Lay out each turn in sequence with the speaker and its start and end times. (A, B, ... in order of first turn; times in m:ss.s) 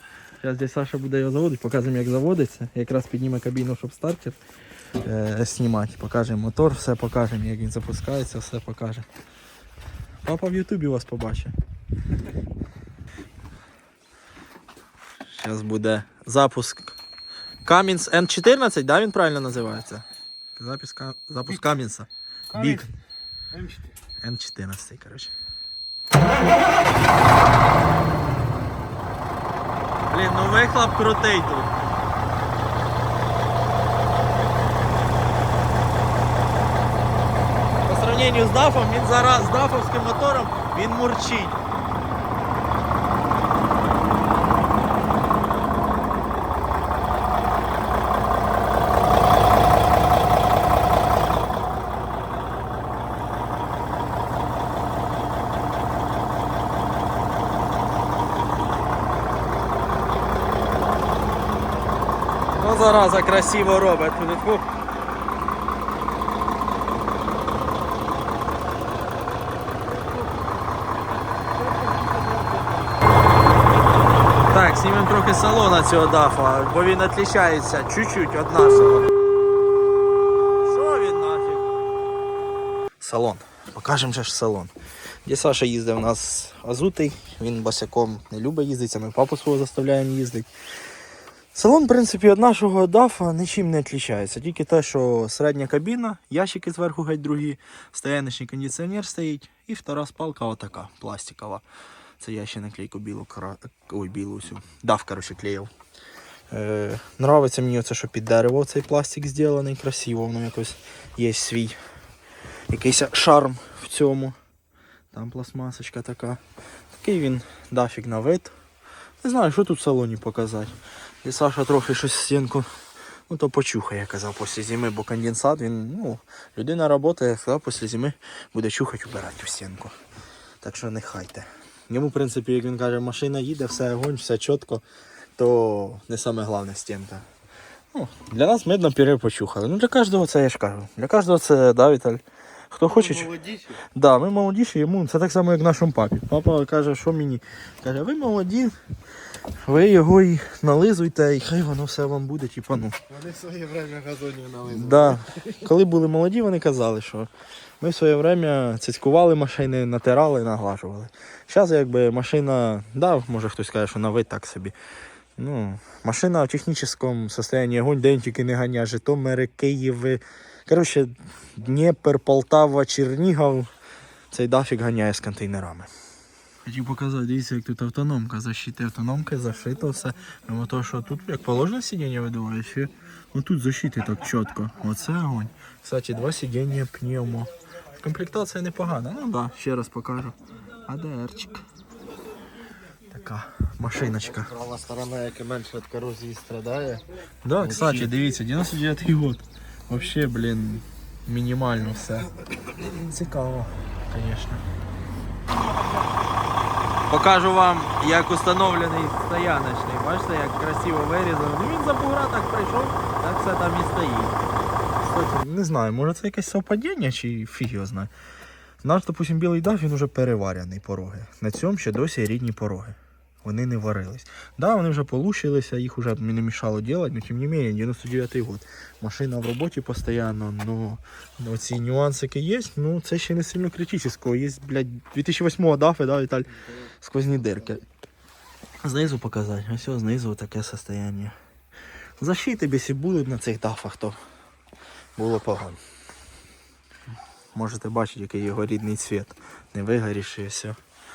0:00.4-0:04.4 A
0:05.0-0:09.0 A
0:10.2-0:11.5 A
0:15.3-0:17.0 A
0:17.6-0:22.9 A
0:22.5-0:22.9 B
0:23.5-0:23.9 B
0:24.2-0:25.3 A
0:30.1-0:31.7 A
0:37.8-0:41.6 A
1:02.6-1:04.6 A
1:11.7-1:12.8 B
1:14.5-1:19.1 A
1:20.6-1:21.7 A
1:23.0-1:24.7 A
1:25.2-1:30.5 A
1:31.5-1:41.6 A
1:42.2-1:45.7 A
1:46.5-1:51.8 A
1:52.7-1:54.4 A
1:55.1-1:56.4 A
1:56.9-1:58.5 A
1:59.2-2:02.7 A
2:03.3-2:10.0 A
2:10.6-2:14.8 A
2:15.4-2:17.2 A
2:17.9-2:23.4 A
2:22.9-2:23.8 C
2:23.9-2:28.8 A
2:29.6-2:33.0 A
2:33.1-2:35.2 C
2:34.7-2:37.3 A
2:37.8-2:44.7 A
2:45.4-2:53.7 A
2:54.3-2:55.9 A
2:56.6-3:11.6 A
3:13.1-3:14.5 A
3:14.4-3:17.0 C
3:17.4-3:22.3 A
3:17.6-3:18.1 C
3:22.8-3:24.6 A
3:25.5-3:26.5 B
3:27.1-3:34.4 A
3:35.0-3:38.1 A
3:38.8-3:57.8 A
3:58.8-4:01.3 A
4:02.2-4:04.2 A
4:05.2-4:05.8 A
4:07.5-4:10.8 A